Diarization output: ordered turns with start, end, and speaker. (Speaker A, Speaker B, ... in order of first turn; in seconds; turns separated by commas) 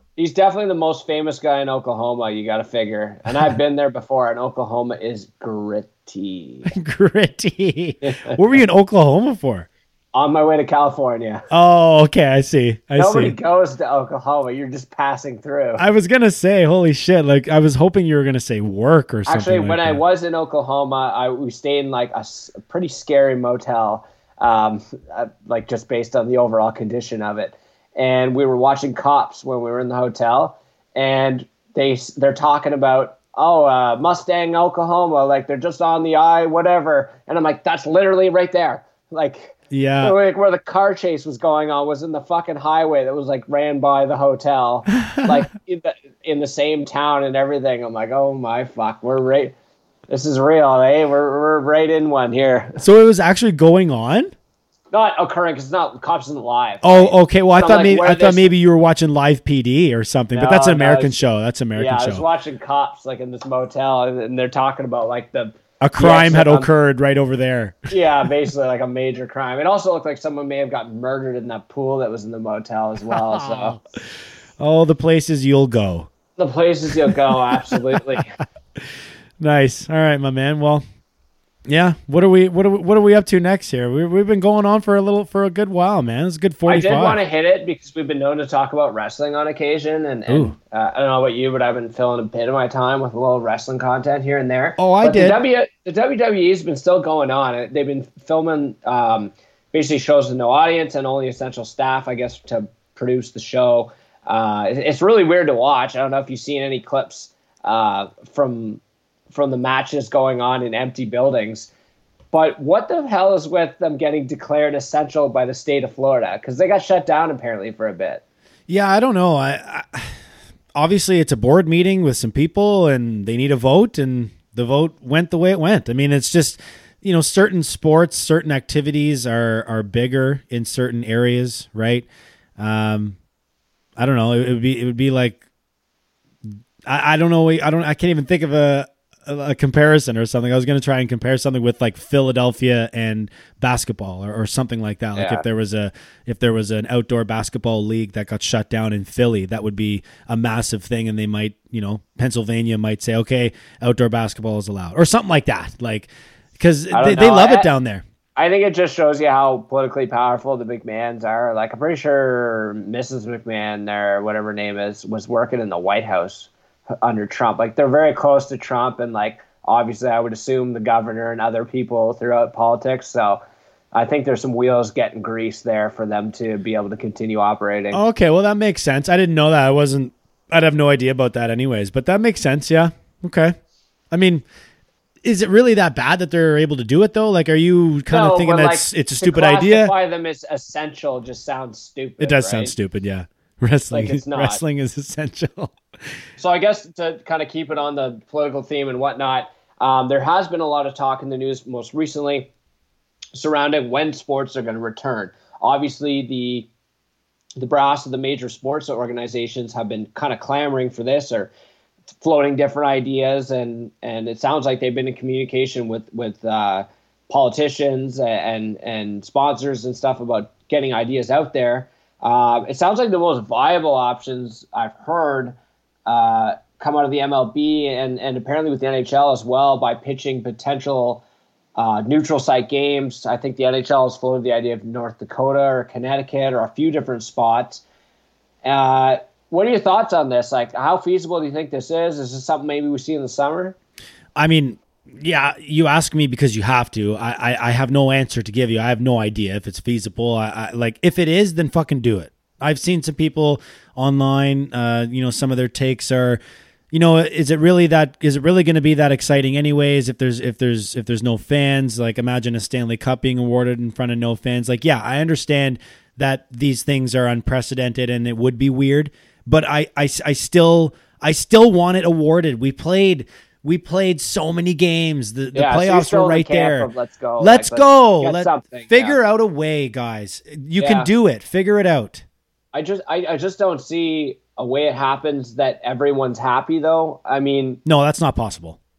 Speaker A: 0.2-6.7, Speaker B: 6.7-9.7, Speaker A: 8.0-8.4, Speaker A: 10.1-11.5, Speaker B: 11.5-13.4, Speaker A: 13.0-15.8, Speaker B: 15.8-20.0, Speaker A: 19.3-49.5, Speaker B: 39.7-40.1, Speaker B: 45.0-45.4, Speaker A: 50.1-52.8, Speaker B: 52.8-54.3, Speaker A: 54.9-58.5, Speaker B: 56.8-62.2, Speaker A: 60.3-61.2, Speaker A: 61.8-66.7, Speaker B: 65.8-67.9, Speaker A: 67.9-73.8, Speaker B: 73.1-73.8, Speaker B: 74.6-76.1, Speaker A: 76.4-78.3, Speaker B: 77.5-78.0, Speaker B: 78.8-80.8, Speaker B: 81.7-87.2, Speaker A: 86.7-111.7, Speaker B: 90.3-90.5, Speaker B: 94.8-95.4, Speaker A: 112.3-118.2, Speaker B: 118.7-120.2, Speaker B: 120.8-132.1, Speaker B: 132.6-133.2, Speaker B: 134.0-135.4, Speaker B: 136.8-158.0, Speaker A: 145.2-145.4, Speaker A: 156.9-157.7, Speaker A: 158.4-166.5, Speaker A: 167.0-173.4, Speaker A: 173.9-178.0, Speaker B: 177.9-183.6, Speaker B: 184.1-184.4, Speaker B: 185.2-189.9, Speaker A: 188.1-192.7, Speaker B: 192.2-195.8, Speaker A: 193.9-194.6, Speaker A: 196.4-202.5, Speaker A: 203.3-206.7, Speaker A: 207.6-211.5, Speaker A: 212.2-231.2, Speaker A: 231.8-237.8, Speaker A: 238.6-243.8, Speaker B: 244.4-256.4, Speaker B: 256.9-282.2, Speaker A: 275.5-279.2, Speaker A: 280.8-281.1, Speaker A: 282.7-287.8, Speaker B: 287.9-288.8